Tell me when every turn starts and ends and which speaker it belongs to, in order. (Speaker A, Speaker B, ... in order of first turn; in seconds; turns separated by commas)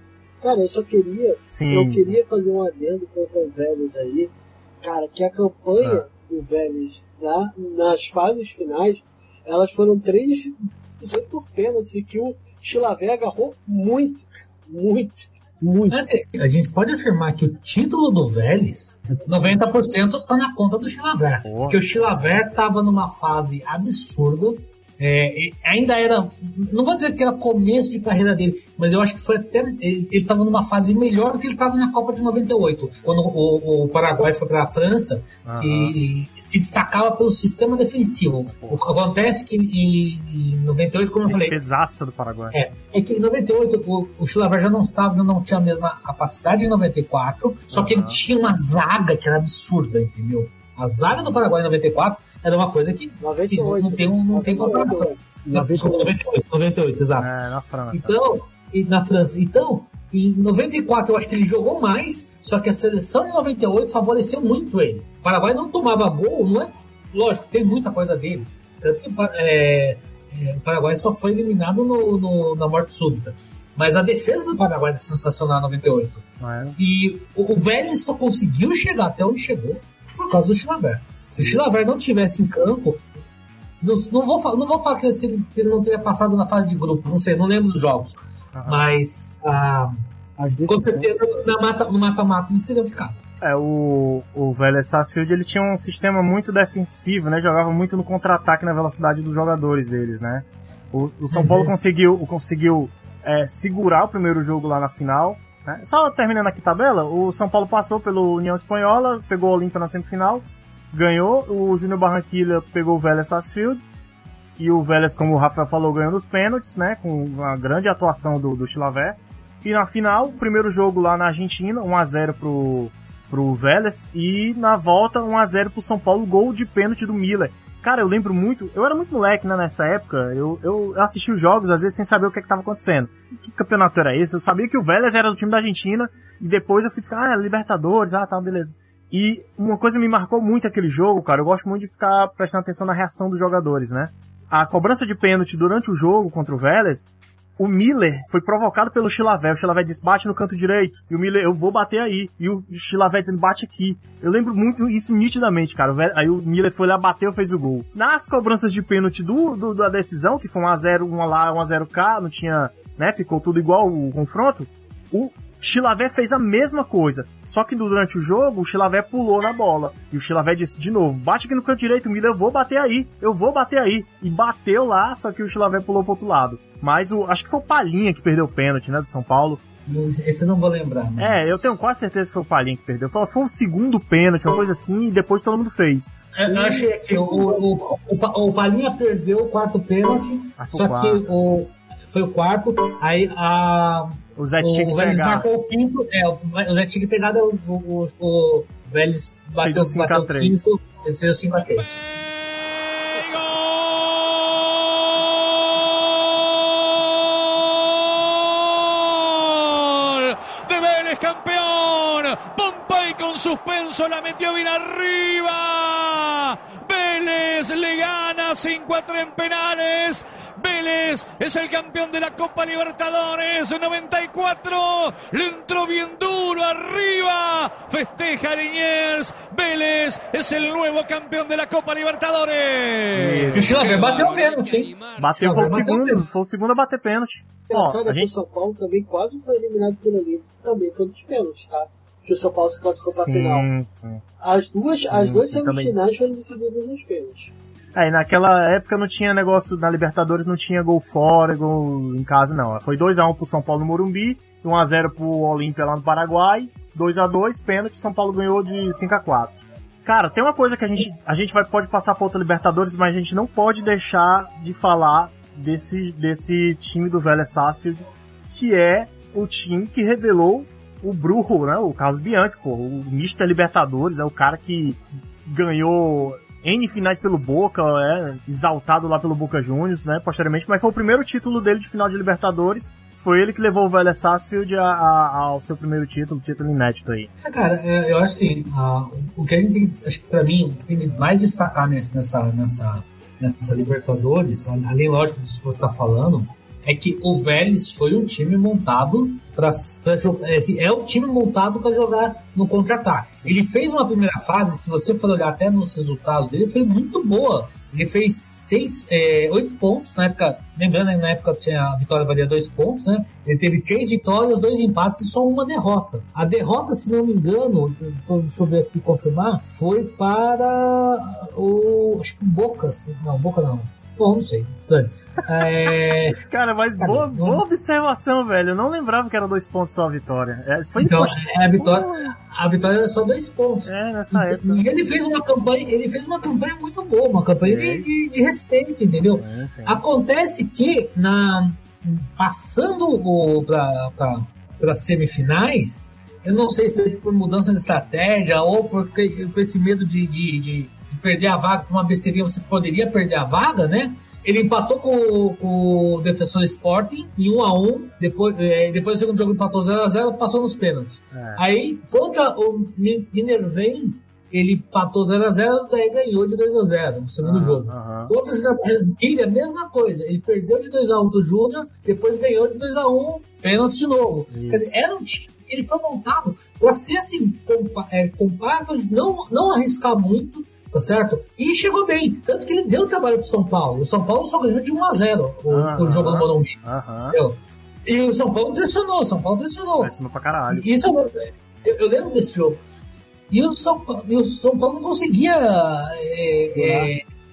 Speaker A: 0.4-15.9, Speaker B: 1.5-2.1, Speaker C: 15.9-41.6, Speaker B: 21.4-21.9, Speaker B: 35.5-36.0, Speaker B: 41.3-42.6, Speaker C: 42.5-57.3, Speaker B: 47.7-48.2, Speaker B: 51.0-51.4, Speaker A: 53.2-56.1, Speaker B: 57.2-58.2, Speaker C: 57.9-76.2, Speaker B: 76.4-76.8, Speaker C: 76.8-83.0, Speaker B: 81.4-81.7, Speaker C: 83.8-90.0, Speaker B: 88.5-89.0, Speaker B: 90.6-91.0, Speaker C: 90.6-93.2, Speaker B: 93.4-113.8, Speaker C: 101.3-101.7, Speaker B: 114.6-147.1, Speaker B: 147.6-179.6, Speaker C: 179.9-181.8, Speaker B: 181.2-186.8, Speaker C: 186.4-202.0, Speaker A: 186.5-187.6, Speaker B: 190.6-191.3, Speaker B: 194.4-195.5, Speaker B: 199.6-200.7, Speaker D: 201.7-235.4, Speaker B: 233.2-234.1, Speaker C: 233.5-236.2, Speaker B: 235.2-238.3, Speaker A: 237.7-243.7, Speaker B: 243.0-244.2, Speaker A: 244.4-247.5, Speaker B: 245.1-246.0, Speaker B: 247.9-287.3, Speaker C: 287.4-326.4, Speaker B: 325.8-332.3, Speaker C: 327.0-327.6, Speaker C: 331.0-386.8, Speaker B: 333.9-334.9, Speaker B: 337.6-338.1, Speaker B: 339.2-340.0, Speaker B: 361.3-361.6, Speaker B: 367.4-368.3, Speaker B: 374.5-375.0, Speaker B: 385.7-387.4, Speaker C: 387.3-390.1, Speaker B: 390.0-390.9, Speaker C: 390.7-392.8, Speaker C: 393.5-397.2, Speaker B: 396.7-397.1